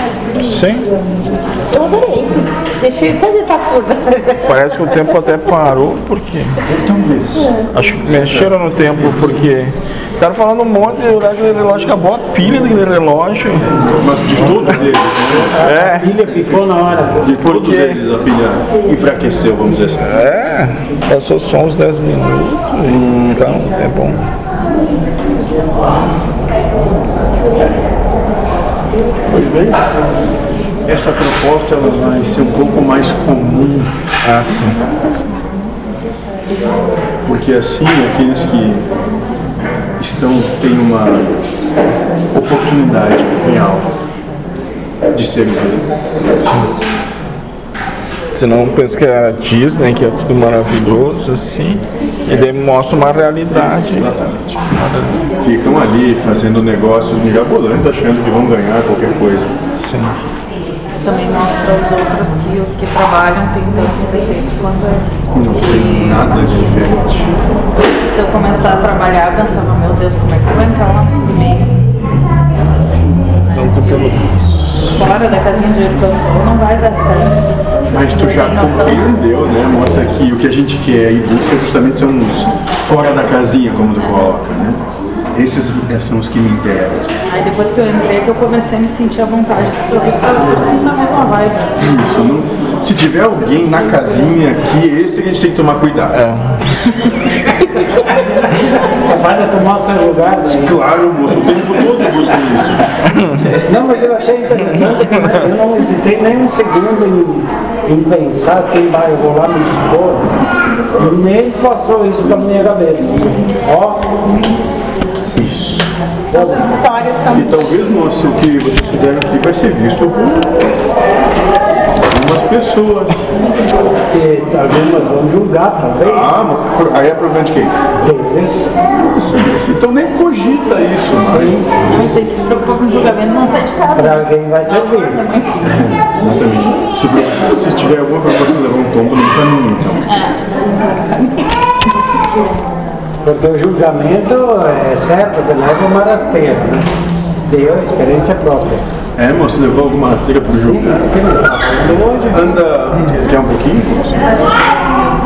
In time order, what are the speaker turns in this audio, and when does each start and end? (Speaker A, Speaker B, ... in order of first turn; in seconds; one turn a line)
Speaker A: 0.4-0.9
Speaker B: 1.6-4.5
Speaker A: 4.5-6.5
Speaker C: 6.6-7.5
Speaker B: 7.4-7.7
Speaker A: 7.7-13.8
Speaker C: 8.1-9.4
Speaker C: 13.7-15.7
Speaker A: 14.3-14.8
Speaker D: 15.3-17.3
Speaker A: 15.6-16.2
Speaker C: 17.2-20.2
Speaker A: 17.4-18.0
Speaker A: 20.0-24.2
Speaker C: 22.8-23.5
Speaker C: 29.3-29.8
Speaker C: 30.9-34.0
Speaker A: 34.2-34.8
Speaker C: 37.2-38.9
Speaker C: 40.0-41.4
Speaker C: 42.3-43.9
Speaker C: 45.1-45.8
Speaker A: 46.4-46.7
Speaker A: 48.3-54.2
Speaker C: 52.3-53.0
Speaker C: 53.5-54.7
Speaker A: 54.7-55.2
Speaker C: 55.4-59.5
Speaker A: 59.8-60.2
Speaker E: 61.0-66.5
Speaker C: 65.3-67.4
Speaker E: 67.7-71.8
Speaker E: 73.5-74.3
Speaker A: 73.5-74.4
Speaker C: 74.5-75.0
Speaker E: 74.8-79.1
Speaker C: 77.9-84.8
Speaker C: 85.3-87.2
Speaker E: 87.3-91.8
Speaker C: 91.8-96.2
Speaker A: 96.1-96.8
Speaker D: 98.7-100.8
Speaker C: 100.5-102.9
Speaker A: 103.0-103.5
Speaker D: 103.5-110.3
Speaker A: 105.0-105.4
Speaker D: 111.0-114.2
Speaker C: 115.3-115.9
Speaker D: 116.3-116.8
Speaker B: 116.3-117.6
Speaker C: 117.3-120.5
Speaker C: 121.9-123.3
Speaker D: 124.1-126.4
Speaker C: 126.0-127.8
Speaker D: 128.0-128.7
Speaker C: 129.0-131.8
Speaker D: 131.2-131.8
Speaker E: 131.8-135.7
Speaker D: 133.9-135.2
Speaker C: 135.6-140.1
Speaker E: 140.1-141.5
Speaker D: 143.2-146.9
Speaker D: 147.5-148.8
Speaker C: 149.2-151.2
Speaker D: 150.5-152.5
Speaker C: 152.3-154.3